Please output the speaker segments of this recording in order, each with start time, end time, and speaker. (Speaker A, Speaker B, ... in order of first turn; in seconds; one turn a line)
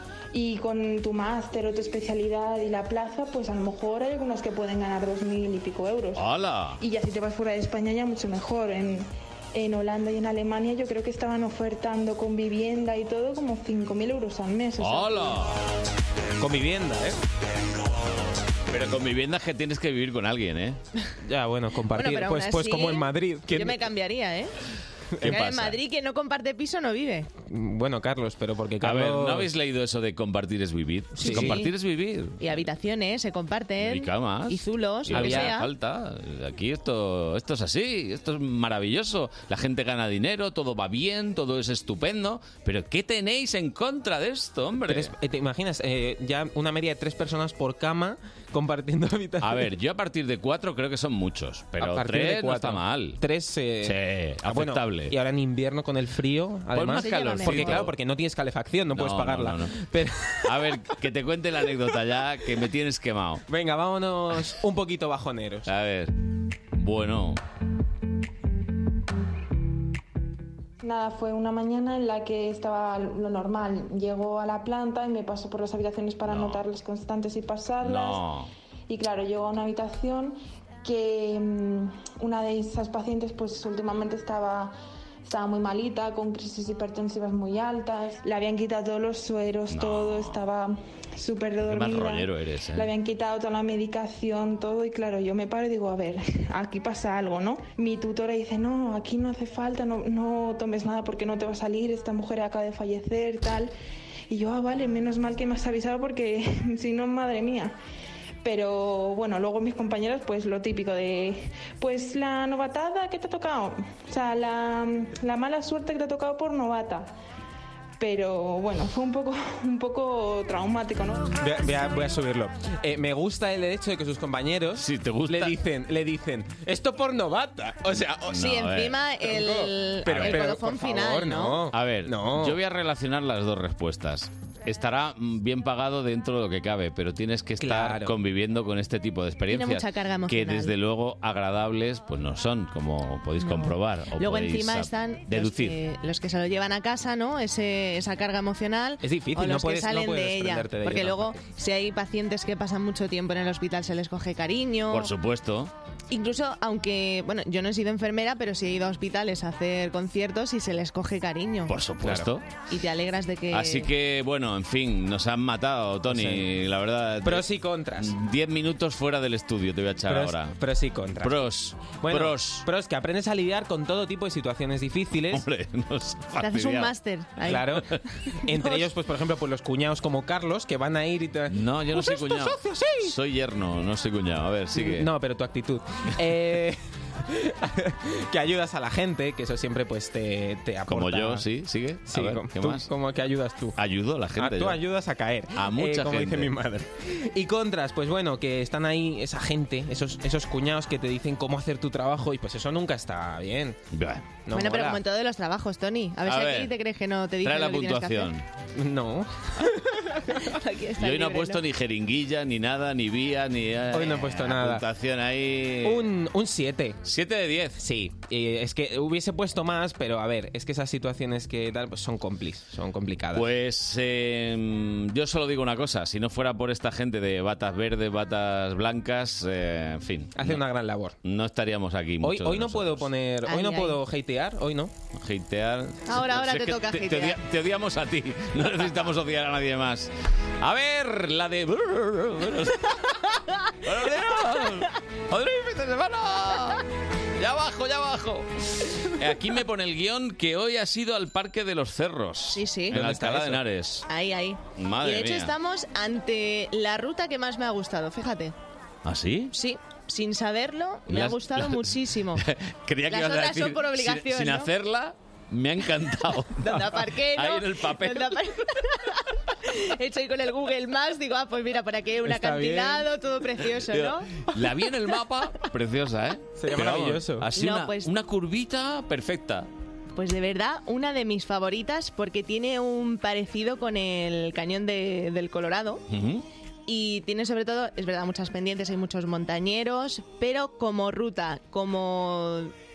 Speaker A: 0.3-6.2
Speaker B: 6.1-6.8
Speaker A: 6.8-15.4
Speaker B: 14.8-15.6
Speaker C: 16.4-17.2
Speaker B: 18.7-20.8
Speaker C: 21.2-23.8
Speaker D: 21.9-24.5
Speaker B: 25.2-25.8
Speaker D: 25.2-27.3
Speaker C: 27.4-29.5
Speaker B: 28.8-32.6
Speaker C: 31.2-31.6
Speaker D: 31.2-31.7
Speaker D: 32.4-35.7
Speaker B: 33.8-45.1
Speaker C: 35.1-35.5
Speaker C: 44.9-49.7
Speaker B: 49.4-53.2
Speaker C: 51.8-60.5
Speaker B: 53.8-55.1
Speaker B: 56.7-57.9
Speaker D: 56.9-57.8
Speaker B: 58.9-59.7
Speaker B: 60.4-63.4
Speaker C: 63.5-65.7
Speaker B: 65.7-66.1
Speaker B: 66.8-67.4
Speaker A: 70.8-78.2
Speaker B: 76.3-76.6
Speaker B: 77.8-78.5
Speaker A: 78.9-103.7
Speaker B: 89.7-90.4
Speaker B: 91.6-92.9
Speaker A: 104.3-107.7
Speaker A: 108.4-117.1
Speaker A: 118.0-121.3
Speaker C: 121.4-128.4
Speaker B: 124.8-125.6
Speaker B: 128.3-129.0
Speaker D: 128.4-131.7
Speaker C: 129.2-132.6
Speaker B: 130.1-130.5
Speaker B: 131.7-145.8
Speaker C: 137.6-138.1
Speaker D: 139.5-140.7
Speaker D: 144.2-155.1
Speaker C: 149.0-151.4
Speaker B: 154.9-155.7
Speaker D: 156.1-161.7
Speaker B: 161.7-162.4
Speaker C: 162.0-162.3
Speaker D: 162.7-163.9
Speaker B: 163.5-170.6
Speaker C: 166.1-166.5
Speaker C: 167.2-168.1
Speaker C: 170.1-171.5
Speaker B: 171.2-172.7
Speaker C: 172.0-175.4
Speaker B: 175.3-176.9
Speaker D: 176.4-177.7
Speaker C: 177.4-177.9
Speaker C: 178.4-183.1
Speaker D: 178.5-178.9
Speaker B: 181.5-185.1
Speaker C: 184.7-191.4
Speaker B: 190.9-192.9
Speaker C: 192.1-193.8
Speaker B: 193.8-194.8
Speaker C: 194.4-203.8
Speaker B: 195.5-196.5
Speaker B: 203.9-204.4
Speaker C: 204.5-205.0
Speaker D: 204.5-208.3
Speaker B: 206.2-206.7
Speaker B: 207.4-208.4
Speaker C: 208.8-210.2
Speaker D: 210.5-211.6
Speaker B: 211.0-216.1
Speaker C: 213.9-214.8
Speaker C: 215.8-217.0
Speaker B: 217.0-217.8
Speaker C: 217.8-223.4
Speaker B: 223.3-230.6
Speaker C: 230.4-231.1
Speaker B: 231.2-233.1
Speaker C: 232.2-234.9
Speaker D: 233.4-234.0
Speaker B: 235.2-243.0
Speaker D: 236.1-237.4
Speaker B: 243.8-246.8
Speaker B: 247.4-254.1
Speaker D: 252.5-252.9
Speaker C: 252.9-253.6
Speaker D: 254.1-258.5
Speaker B: 254.8-255.5
Speaker B: 259.0-259.5
Speaker D: 259.5-262.4
Speaker B: 261.1-268.4
Speaker D: 263.1-264.7
Speaker D: 266.6-274.3
Speaker C: 272.2-273.1
Speaker B: 273.6-279.7
Speaker C: 276.6-277.5
Speaker D: 277.6-278.1
Speaker D: 280.1-286.0
Speaker B: 286.1-286.4
Speaker D: 286.9-292.7